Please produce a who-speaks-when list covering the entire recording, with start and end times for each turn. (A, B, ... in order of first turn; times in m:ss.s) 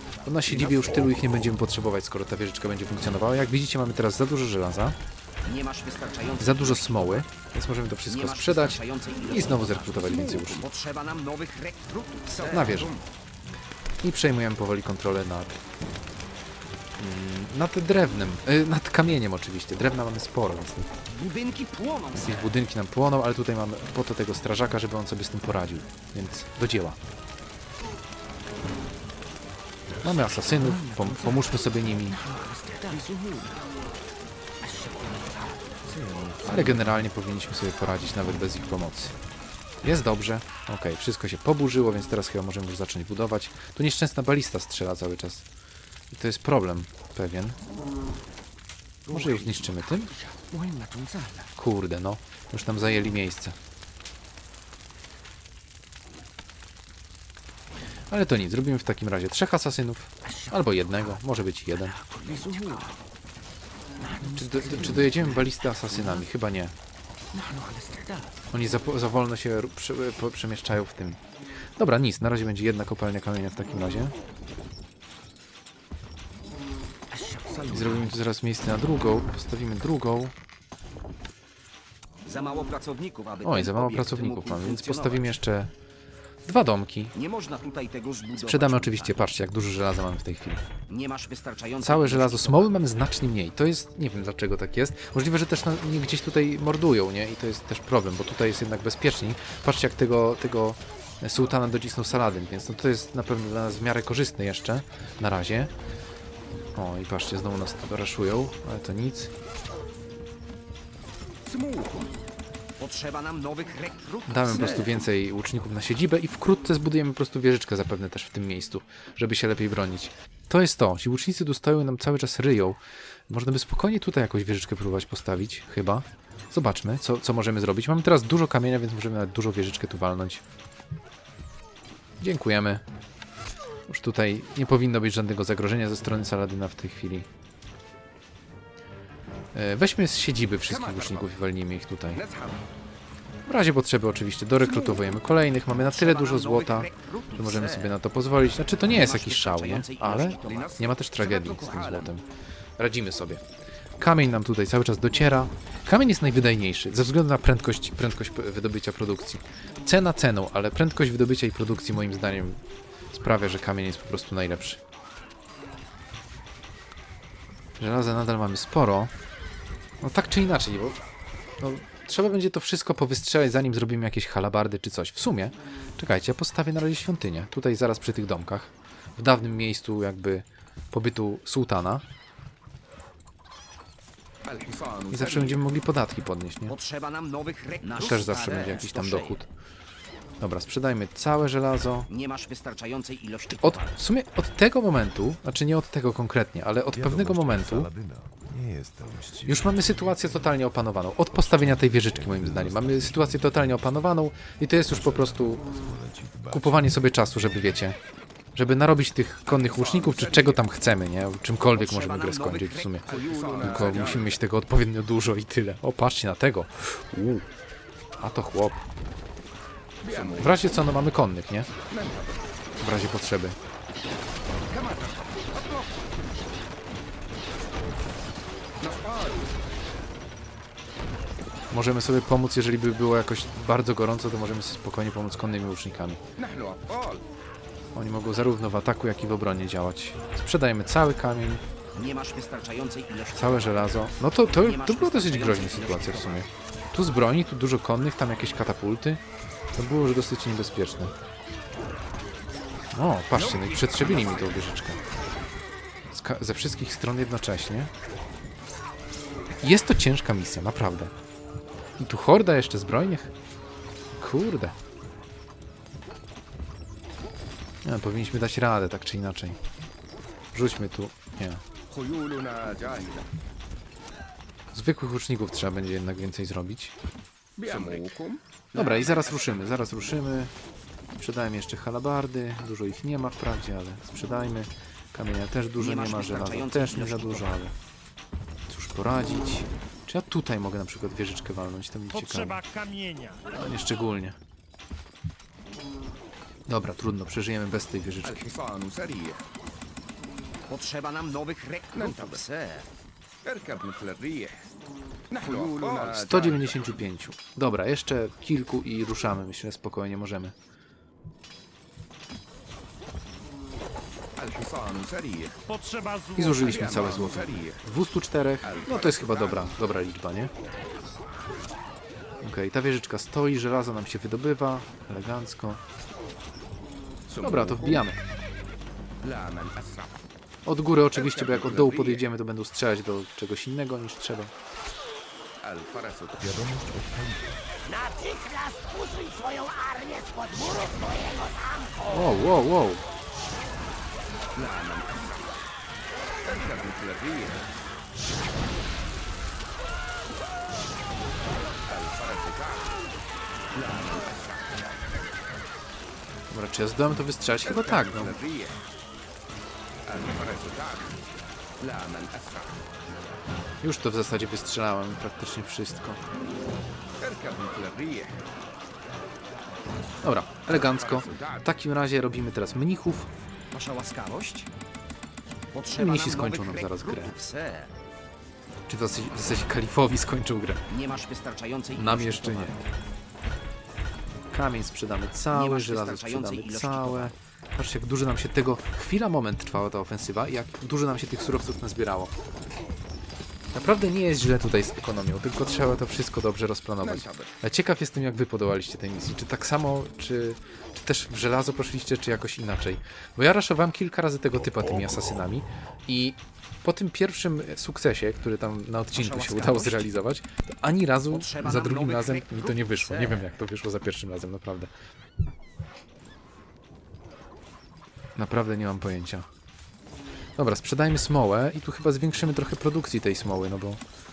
0:00.2-0:05.0 A
0:05.4-0:07.3 B
0:06.4-0:10.7 A
0:08.1-0:13.0 B
0:12.3-0:13.0 C
0:12.5-0:12.9 A
0:14.0-0:15.6 A
0:17.0-0:20.9 A
0:21.1-0:22.6 B
0:22.2-0:27.0 A
0:30.0-0:33.1 B
0:30.0-0:32.2 A
0:32.9-0:33.6 C
0:34.6-0:36.9 B
0:36.4-0:39.1 A
0:39.8-0:45.4 A
0:46.1-0:47.6 A
0:49.1-0:49.6 C
0:49.1-0:50.1 A
0:49.1-0:49.6 B
0:50.1-0:51.5 C
0:50.5-0:51.0 B
0:51.6-0:53.6 A
0:58.1-1:02.0 A
1:01.8-1:03.0 B
1:02.3-1:02.9 C
1:04.0-1:06.3 B
1:04.4-1:06.7 A
1:07.4-1:08.2 C
1:07.4-1:08.2 B
1:08.5-1:11.2 A
1:11.8-1:14.2 A
1:17.1-1:18.2 B
1:17.7-1:20.3 A
1:22.2-1:25.4 B
1:23.4-1:25.7 A
1:26.4-1:27.1 A
1:27.1-1:29.3 B
1:28.4-1:30.6 A
1:30.9-1:32.8 B
1:31.8-1:45.7 A
1:46.8-1:49.3 A
1:51.4-1:52.1 C
1:52.8-1:55.1 B
1:54.3-2:10.4 A
2:12.2-2:12.8 A
2:13.9-2:17.3 A
2:19.5-2:22.2 A
2:20.6-2:21.3 C
2:22.1-2:22.6 C
2:23.5-2:32.2 A
2:24.6-2:25.0 C
2:25.8-2:28.0 B
2:28.9-2:30.9 B
2:30.4-2:32.1 C
2:32.8-2:33.4 A
2:34.0-2:42.6 A
2:43.1-2:44.8 A
2:47.8-2:49.1 A
2:50.0-2:51.0 A
2:51.6-3:02.0 A
3:04.4-3:05.6 C
3:05.1-3:06.8 A
3:06.7-3:09.4 B
3:07.9-3:09.5 A
3:10.4-3:12.1 A
3:12.1-3:14.0 B
3:13.6-3:17.9 A
3:16.9-3:20.6 D
3:19.5-3:25.6 A
3:21.3-3:24.1 D
3:24.9-3:27.9 D
3:26.5-3:28.0 A
3:28.6-3:37.5 A
3:29.5-3:30.7 C
3:31.8-3:34.3 B
3:33.1-3:34.4 C
3:38.2-3:38.9 A
3:40.0-3:40.8 C
3:40.1-3:41.7 A
3:41.9-3:42.5 C
3:42.8-3:43.6 A
3:44.7-3:46.0 C
3:48.8-3:49.5 C
3:51.7-3:56.2 A
3:56.4-3:57.2 C
3:58.0-4:01.6 A
4:01.9-4:06.4 B
4:03.3-4:09.2 A
4:09.7-4:11.1 A
4:12.9-4:15.0 A
4:13.4-4:14.6 C
4:13.4-4:14.5 B
4:16.1-4:17.9 A
4:19.6-4:21.1 A
4:22.0-4:23.3 A
4:24.2-4:24.8 A
4:27.8-4:29.6 A
4:30.5-4:31.6 A
4:31.9-4:33.3 C
4:34.7-4:36.9 A
4:37.6-4:39.6 C
4:38.7-4:40.5 A
4:41.2-4:47.8 A
4:45.8-4:47.6 B
4:48.7-4:52.6 A
4:52.1-4:53.4 E
4:53.6-4:54.4 A
4:56.7-4:58.5 A
4:58.2-4:59.4 C
5:00.7-5:02.9 B
5:02.0-5:02.4 C
5:03.4-5:04.7 C
5:05.3-5:06.7 C
5:05.8-5:10.6 A
5:14.4-5:15.6 C
5:15.7-5:17.1 E
5:16.4-5:20.5 A
5:16.6-5:17.8 C
5:18.6-5:19.8 C
5:22.4-5:25.8 A
5:27.3-5:28.1 C
5:27.4-5:28.2 A
5:29.2-5:30.2 C
5:30.7-5:34.5 A
5:31.1-5:32.3 C
5:35.6-5:36.6 C
5:36.4-5:37.6 D
5:37.9-5:42.5 F
5:42.1-5:43.0 A
5:44.6-5:45.6 C
5:46.4-5:47.7 C
5:51.9-5:53.0 C
5:53.7-5:55.0 C
5:56.5-5:58.4 A
5:57.5-5:58.8 C
6:00.1-6:01.2 C
6:01.8-6:02.8 C
6:03.8-6:06.2 A
6:07.2-6:08.4 C
6:10.2-6:13.3 A
6:10.7-6:11.7 C
6:13.7-6:14.7 B
6:15.7-6:17.9 B
6:16.0-6:17.4 A
6:18.9-6:20.9 A
6:20.9-6:22.8 B
6:21.9-6:22.8 A
6:24.5-6:32.3 A
6:25.5-6:27.4 B
6:33.7-6:54.9 A
6:37.0-6:37.6 C
6:49.1-6:50.1 B
6:51.3-6:53.5 B
6:58.4-6:59.5 A
7:00.6-7:04.0 A